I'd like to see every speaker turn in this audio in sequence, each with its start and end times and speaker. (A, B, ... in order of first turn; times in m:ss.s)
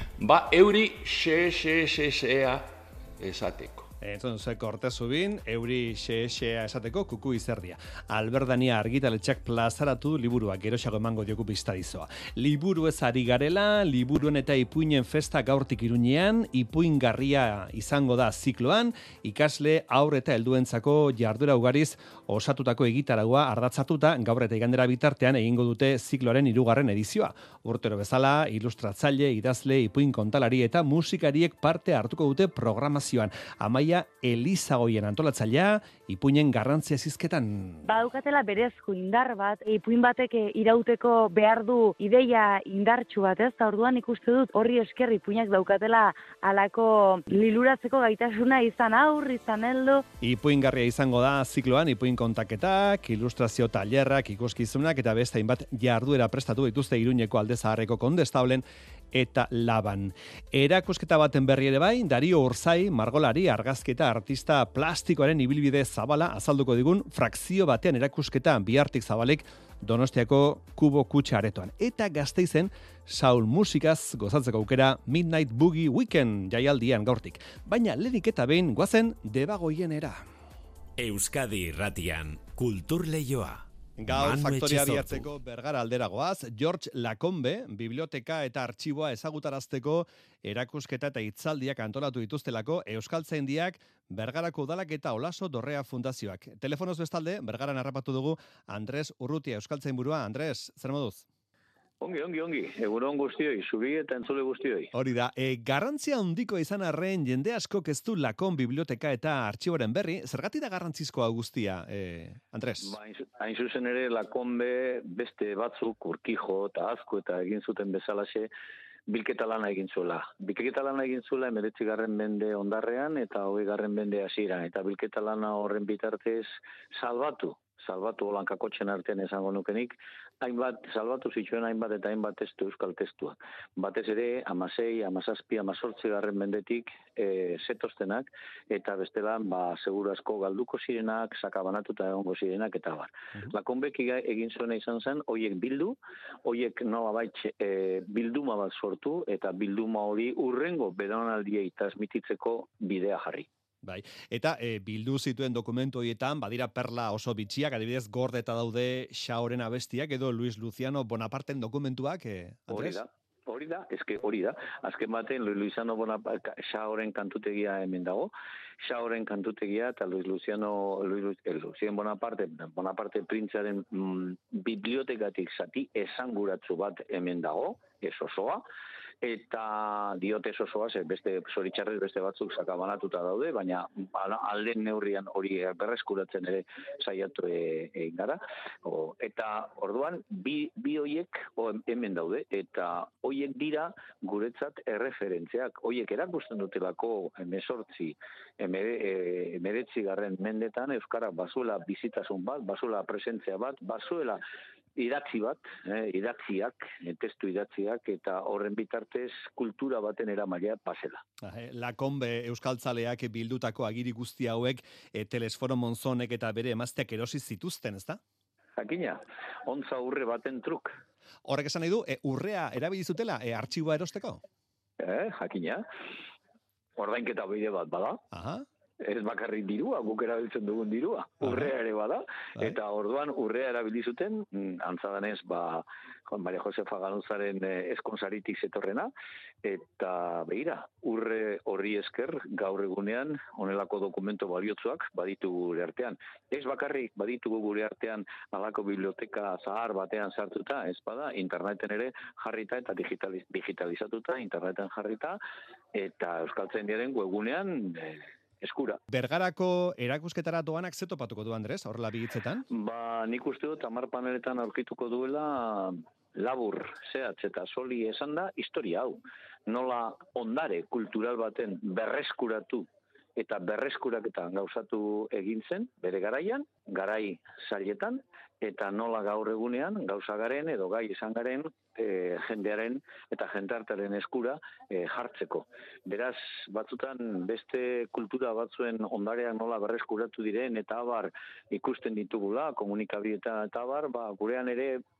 0:00.2-0:03.9 A
0:04.0-0:37.9 B
0:37.8-0:50.0 C
0:50.2-1:20.2 B
1:21.0-1:25.3 D
1:24.0-1:41.2 B
1:42.0-1:44.9 E
1:44.9-1:53.0 B
1:52.8-1:58.5 E
1:59.1-2:33.5 E
2:33.8-2:43.0 B
2:42.7-2:48.3 E
2:48.8-2:58.6 E
2:59.2-3:24.4 E
3:25.0-3:31.2 E
3:31.4-3:38.2 B
3:38.8-3:40.9 E
3:41.4-3:44.4 B
3:45.0-3:45.8 E
3:47.0-3:48.2 E
3:48.3-3:48.6 B
3:49.0-3:59.1 E
3:51.4-3:51.7 B
3:59.6-4:15.4 E
4:15.9-4:19.0 E
4:19.1-4:22.6 B
4:22.7-4:32.8 E
4:33.4-4:55.0 E